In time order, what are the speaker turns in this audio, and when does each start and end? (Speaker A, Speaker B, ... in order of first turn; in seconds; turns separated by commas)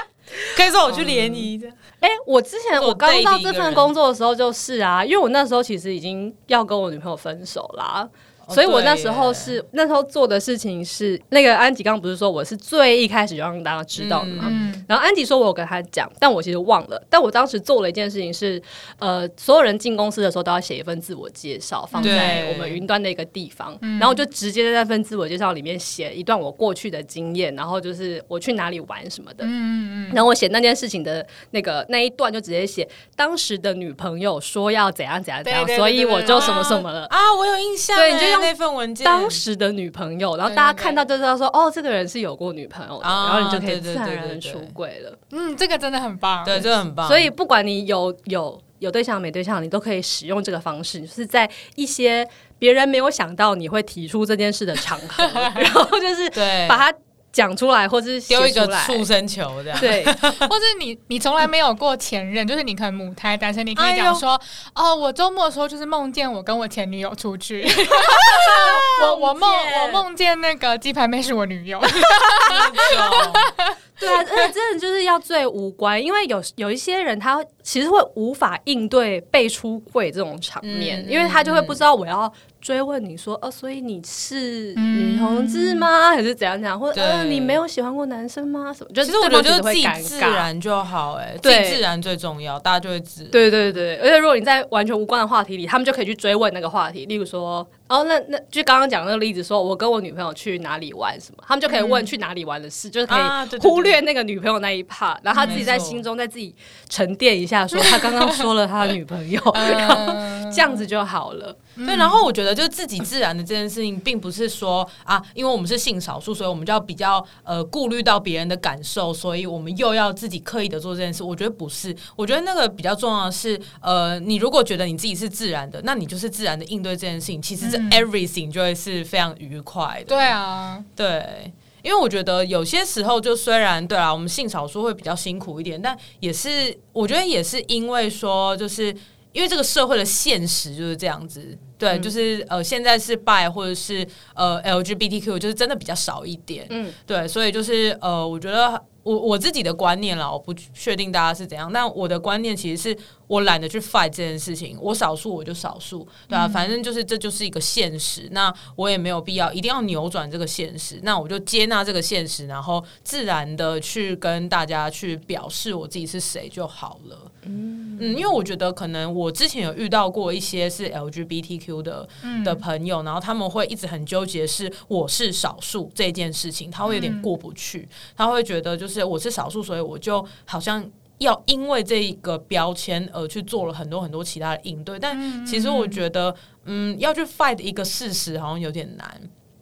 Speaker A: 0.5-1.8, Speaker B: 0.9-1.5, Speaker B: 2.0-29.5, Speaker A: 2.7-3.9, Speaker A: 8.4-9.6, Speaker A: 13.9-14.7, Speaker C: 14.4-14.8, Speaker C: 21.9-22.4, Speaker A: 22.0-22.8, Speaker C: 23.8-24.2, Speaker C: 29.4-30.2, Speaker B: 30.1-37.1, Speaker C: 35.4-36.8, Speaker A: 36.3-39.4, Speaker B: 37.9-45.2, Speaker C: 40.5-41.0, Speaker A: 43.0-44.7, Speaker C: 45.3-46.7, Speaker A: 46.4-47.3, Speaker B: 47.0-59.1, Speaker C: 55.3-55.7, Speaker A: 56.3-56.8, Speaker A: 58.3-60.5, Speaker B: 59.8-60.2, Speaker C: 59.8-74.4, Speaker A: 63.8-64.2, Speaker A: 68.1-69.9, Speaker A: 72.4-73.5, Speaker B: 74.0-90.5, Speaker A: 80.6-81.8, Speaker C: 84.8-85.9, Speaker A: 86.9-87.6, Speaker A: 89.0-93.6, Speaker B: 91.4-91.8, Speaker B: 93.3-111.6, Speaker C: 101.7-102.1, Speaker A: 103.1-104.0, Speaker C: 105.3-105.7, Speaker A: 105.4-106.0, Speaker C: 107.9-108.3, Speaker C: 109.5-110.8, Speaker C: 111.8-112.2, Speaker A: 111.8-130.3, Speaker C: 127.6-128.0, Speaker C: 130.1-130.9, Speaker A: 131.0-167.3, Speaker B: 146.7-146.9, Speaker C: 156.3-156.7, Speaker B: 167.4-168.1, Speaker A: 168.0-189.3, Speaker C: 172.2-172.6, Speaker C: 176.8-177.3, Speaker C: 185.1-186.0